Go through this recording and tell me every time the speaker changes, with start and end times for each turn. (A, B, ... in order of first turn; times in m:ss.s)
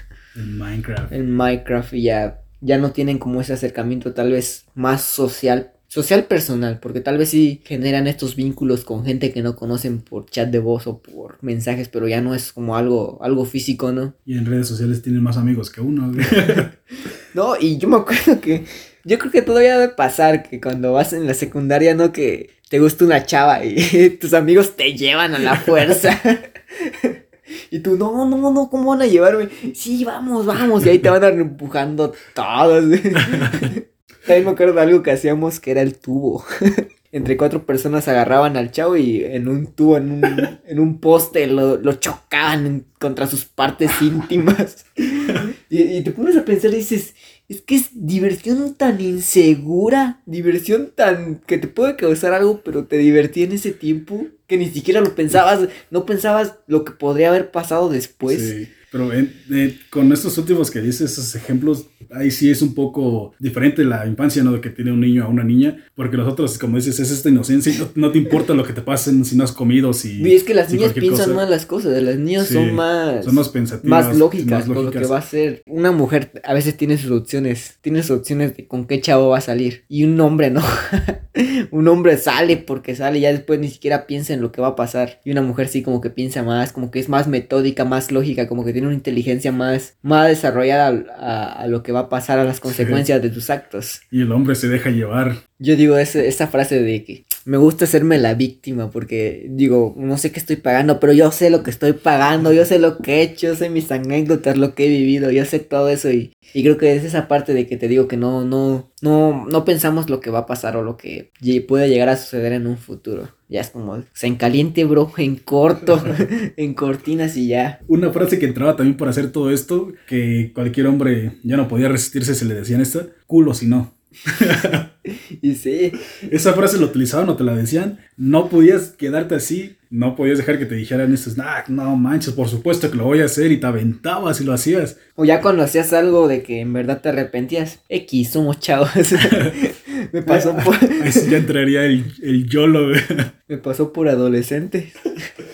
0:00.4-0:01.1 A
0:01.1-0:14.1 B
0:14.2-0:16.7 A
0:17.3-0:27.1 B
0:27.7-0:36.4 B
0:33.2-0:33.6 A
0:37.1-0:58.5 B
0:58.2-1:11.4 A
1:10.2-1:34.0 B
1:12.4-1:15.1 A
1:32.6-1:33.0 A
1:34.1-1:35.4 A
1:35.6-1:57.8 B
1:57.9-2:04.9 A
2:05.1-2:06.0 B
2:06.2-2:15.0 A
2:15.2-2:21.3 B
2:19.3-2:19.6 A
2:20.2-2:23.3 A
2:23.5-2:25.0 B